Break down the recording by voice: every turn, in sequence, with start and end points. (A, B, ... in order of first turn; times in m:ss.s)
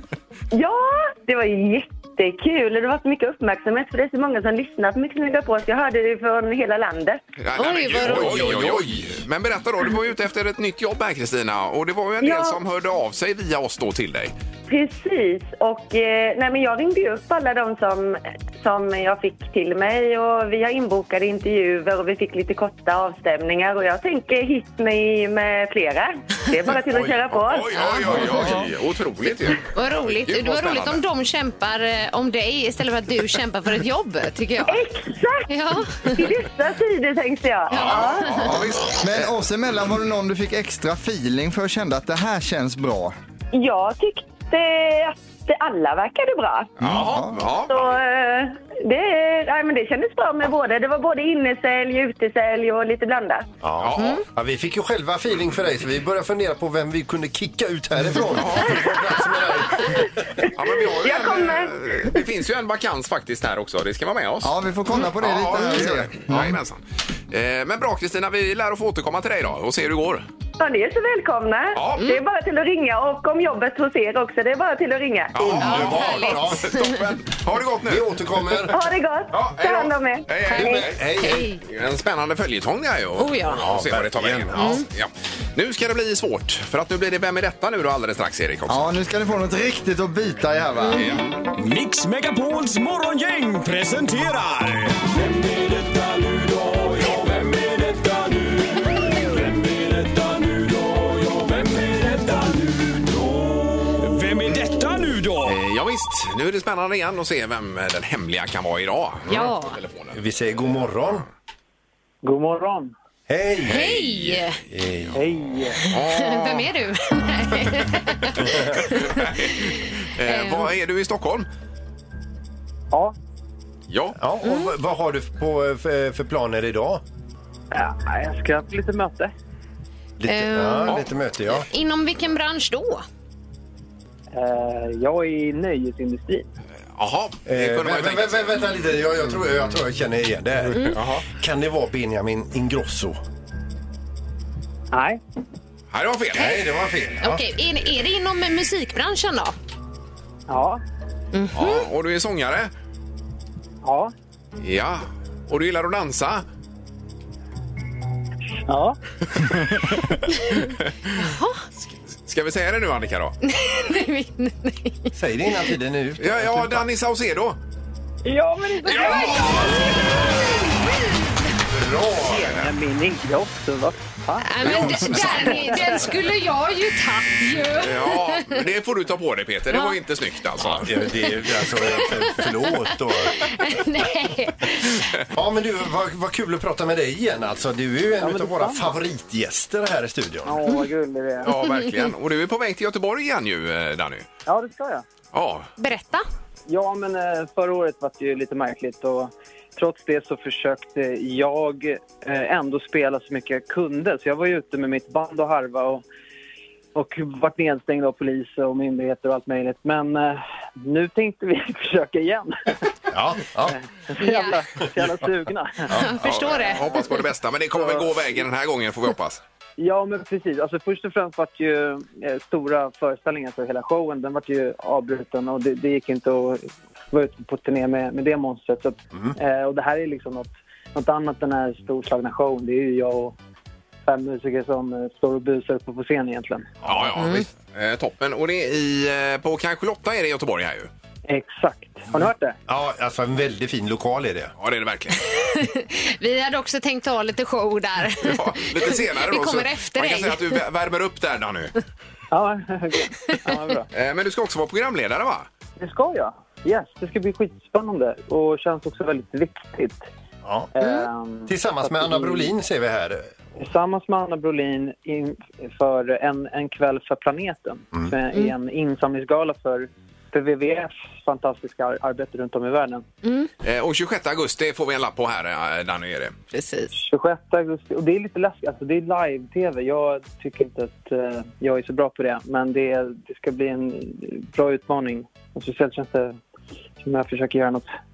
0:00.5-0:07.2 A
0:07.4-0:14.3 B
0:07.6-0:08.5 C
0:08.0-0:09.2 D
0:12.2-0:12.6 A
0:14.7-0:27.8 A
0:26.9-0:31.0 B
0:27.7-0:28.4 C
0:27.9-0:28.5 D
0:29.6-0:34.8 C
0:34.6-0:35.5 A
0:35.5-0:36.3 C
0:36.0-0:38.2 A
0:37.7-0:39.3 B
0:37.7-0:38.3 C
0:38.3-0:43.1 E
0:43.5-0:46.7 A
0:46.8-0:48.0 B
0:46.8-0:47.4 E
0:47.7-0:53.5 A
0:53.6-1:00.4 D
0:53.8-0:54.2 B
0:54.0-0:54.2 C
0:58.3-0:59.0 B
1:00.5-1:04.5 B
1:01.0-1:01.7 A
1:04.4-1:06.6 E
1:05.1-1:10.2 B
1:10.6-1:15.4 A
1:11.7-1:12.2 B
1:15.3-1:18.8 B
1:15.4-1:16.7 D
1:15.6-1:17.0 C
1:17.8-1:18.8 D
1:18.7-1:20.7 A
1:19.3-1:21.0 B
1:20.4-1:21.6 C
1:20.5-1:21.5 D
1:21.6-1:28.9 B
1:23.2-1:23.6 C
1:23.5-1:24.8 D
1:24.6-1:24.8 C
1:28.7-1:31.1 E
1:31.0-1:31.3 B
1:31.5-1:45.6 F
1:45.4-1:50.2 B
1:49.3-1:49.8 C
1:50.1-1:51.2 D
1:52.2-1:52.9 G
1:53.3-1:54.0 D
1:53.6-1:54.6 C
1:53.8-1:54.4 B
1:54.7-1:55.2 D
1:55.1-1:55.8 G
1:55.8-1:59.7 C
1:55.9-1:56.7 B
1:58.4-1:59.0 D
1:59.0-2:01.5 B
2:00.2-2:00.7 C
2:03.9-2:04.2 B
2:04.2-2:07.0 D
2:04.4-2:04.7 C
2:07.7-2:09.3 G
2:10.2-2:11.7 D
2:10.3-2:11.0 C
2:10.8-2:11.1 B
2:11.7-2:13.0 C
2:14.3-2:16.4 G
2:16.9-2:18.7 B
2:17.5-2:23.2 D
2:20.9-2:21.2 B
2:24.9-2:25.2 G
2:25.9-2:26.6 B
2:26.3-2:27.4 D
2:26.4-2:26.6 C
2:27.2-2:29.5 C
2:30.5-2:30.8 G
2:31.3-2:31.8 C
2:31.5-2:32.7 B
2:33.8-2:34.1 G
2:34.6-2:36.4 B
2:38.7-2:39.0 G
2:39.5-2:40.0 B
2:41.2-2:41.6 C
2:42.2-2:43.3 B
2:43.4-2:45.1 C
2:45.1-2:46.8 D
2:46.2-2:47.6 B
2:48.2-2:49.6 G
2:48.8-2:49.6 C
2:48.8-2:50.4 B
2:51.7-2:52.6 D
2:52.3-2:54.7 G
2:54.4-2:58.6 C
2:54.6-2:55.8 B
2:55.4-2:56.1 G
2:57.8-3:00.9 B
2:59.7-3:00.0 C
3:00.6-3:03.4 D
3:01.8-3:02.8 C
3:03.3-3:05.1 C
3:05.3-3:10.6 D
3:08.2-3:08.9 G
3:10.4-3:11.5 G
3:11.4-3:14.2 B
3:11.4-3:12.1 C
3:14.4-3:15.0 G
3:15.3-3:15.7 B
3:15.8-3:16.2 C
3:16.7-3:26.0 G
3:26.9-3:32.8 G
3:33.1-3:33.8 D
3:33.7-3:35.9 G
3:34.2-3:34.6 C
3:35.9-3:37.1 C
3:35.9-3:36.6 D
3:36.2-3:39.4 B
3:39.8-3:53.3 G
3:54.0-3:56.7 G
3:56.8-3:57.1 D
3:56.8-4:00.9 B
3:57.2-3:57.4 C
4:01.3-4:02.6 G
4:02.7-4:04.5 D
4:04.6-4:05.2 B
4:05.3-4:10.6 C
4:08.2-4:11.7 B
4:12.3-4:13.9 G
4:13.2-4:13.6 C
4:13.9-4:15.5 B
4:15.8-4:20.1 G
4:20.7-4:22.5 G
4:20.8-4:21.1 C
4:21.5-4:23.3 D
4:23.6-4:33.0 G
4:33.2-4:33.5 C
4:33.6-4:36.3 B
4:36.5-4:36.9 C
4:36.9-4:46.4 G
4:47.0-4:47.9 G